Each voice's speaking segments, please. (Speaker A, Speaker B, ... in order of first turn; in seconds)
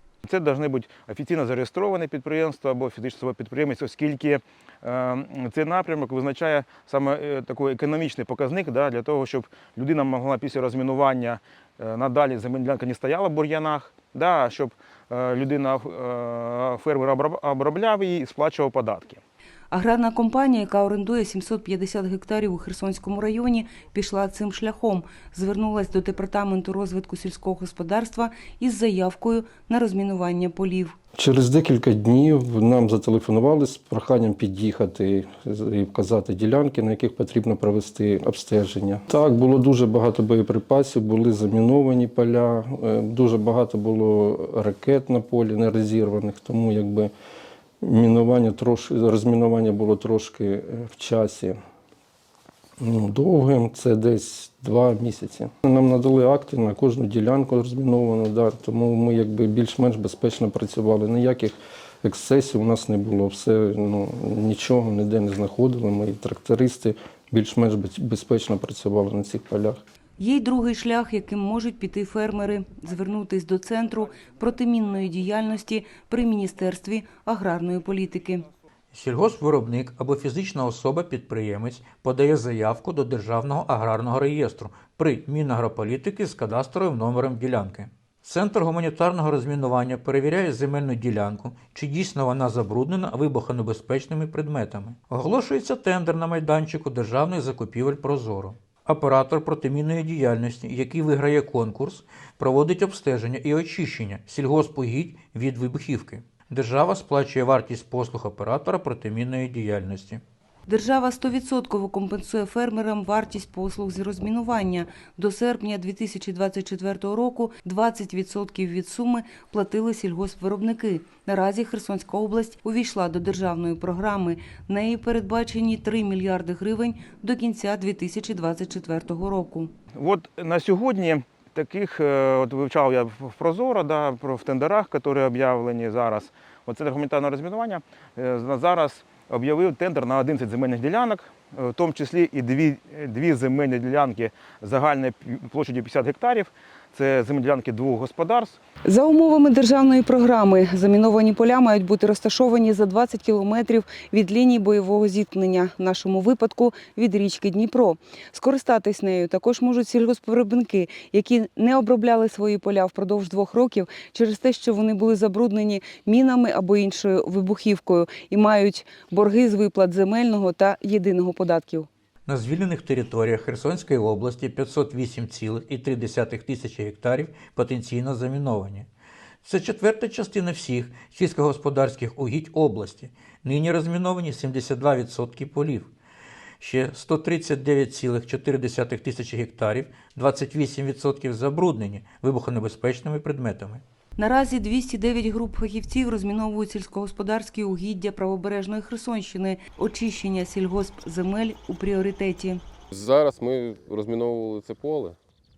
Speaker A: 0.2-19.2, 130.0-148.6
Speaker B: 19.7-30.9, 70.2-78.5, 110.7-129.7, 148.8-171.9, 194.2-202.6
Speaker C: 31.2-47.1, 47.8-51.6, 52.8-69.8
Speaker D: 78.9-110.2, 172.3-178.9, 179.4-185.9, 186.6-193.8
Speaker E: 202.9-205.2